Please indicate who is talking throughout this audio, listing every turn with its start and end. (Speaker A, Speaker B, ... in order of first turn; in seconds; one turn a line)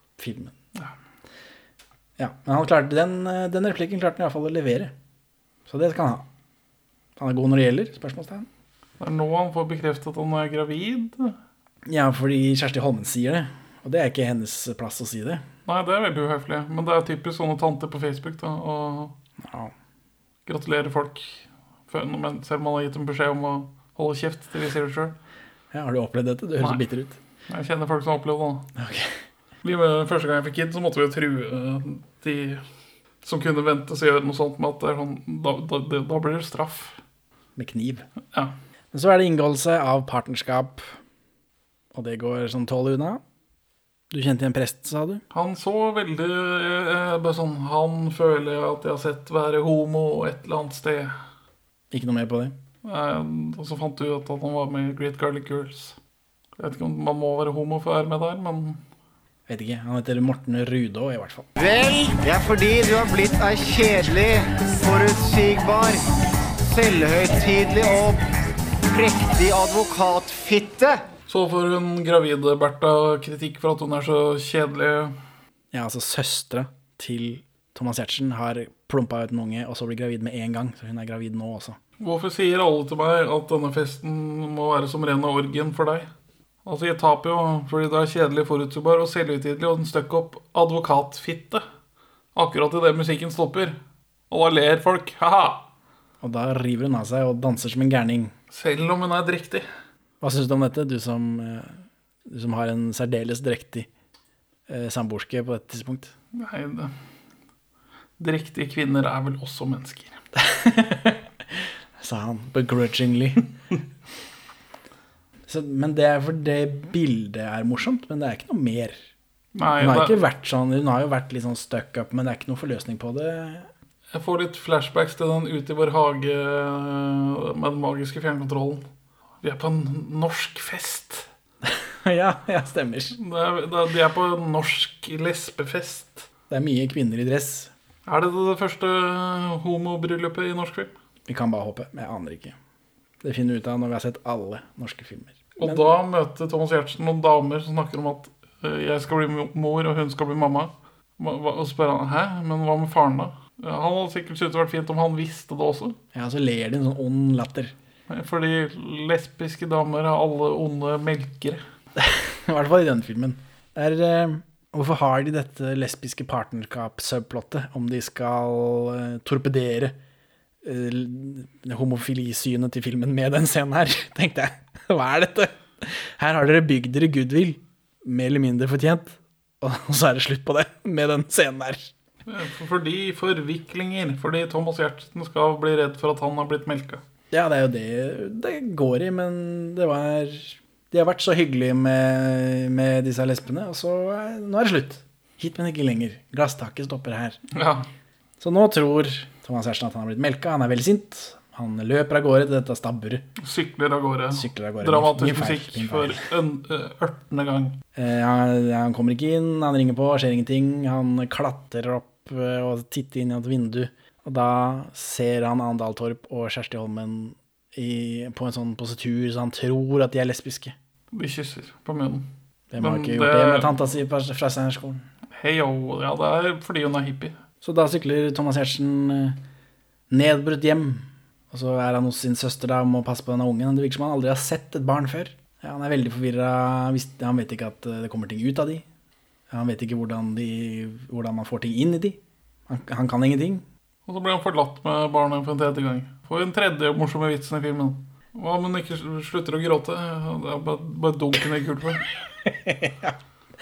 Speaker A: 0.2-0.5
Speaker A: 2.2-4.9
Speaker A: 5.7-6.3
Speaker A: 7.2-8.5
Speaker B: 9.0-11.4
Speaker A: 11.9-15.4
Speaker B: 15.7-19.2
Speaker A: 19.4-19.7
Speaker B: 20.5-25.2
Speaker A: 25.7-27.2
Speaker B: 27.5-28.7
Speaker A: 28.8-29.1
Speaker B: 29.6-32.6
Speaker B: 33.2-37.0
Speaker A: 37.6-38.1
Speaker A: 38.9-40.9
Speaker A: 41.9-43.2
Speaker A: 44.1-45.2
Speaker B: 45.3-51.1
Speaker A: 51.9-52.5
Speaker B: 52.8-56.0
Speaker B: 56.6-58.8
Speaker A: 59.5-61.5
Speaker C: 61.6-66.0
Speaker C: 66.7-68.2
Speaker C: 68.9-71.0
Speaker B: 71.3-75.2
Speaker A: 75.7-81.8
Speaker B: 82.0-86.1
Speaker B: 86.7-91.6
Speaker B: 92.3-93.8
Speaker B: 94.3-95.7
Speaker A: 96.2-98.3
Speaker B: 98.5-99.7
Speaker A: 100.2-103.9
Speaker A: 104.7-106.1
Speaker B: 106.4-106.9
Speaker B: 108.2-110.2
Speaker A: 110.4-111.2
Speaker A: 112.0-113.5
Speaker A: 115.5-119.0
Speaker B: 119.5-120.2
Speaker A: 119.8-123.7
Speaker B: 124.1-128.8
Speaker B: 129.4-131.3
Speaker A: 131.7-133.2
Speaker B: 133.2-136.3
Speaker A: 136.5-137.7
Speaker B: 138.1-140.9
Speaker A: 141.3-142.6
Speaker A: 143.2-146.0
Speaker B: 145.6-156.0
Speaker A: 156.1-157.7
Speaker B: 158.1-161.6
Speaker A: 162.0-170.0
Speaker A: 170.6-181.9
Speaker B: 182.3-187.0
Speaker A: 187.3-197.4
Speaker B: 197.6-197.9
Speaker A: 198.4-203.2
Speaker B: 203.4-207.8
Speaker A: 204.3-206.2
Speaker A: 207.9-220.7
Speaker B: 221.1-223.7
Speaker A: 222.7-225.1
Speaker B: 225.3-227.4
Speaker A: 227.6-229.4
Speaker A: 230.1-238.8
Speaker A: 239.5-243.6
Speaker B: 244.1-252.0
Speaker A: 252.5-253.2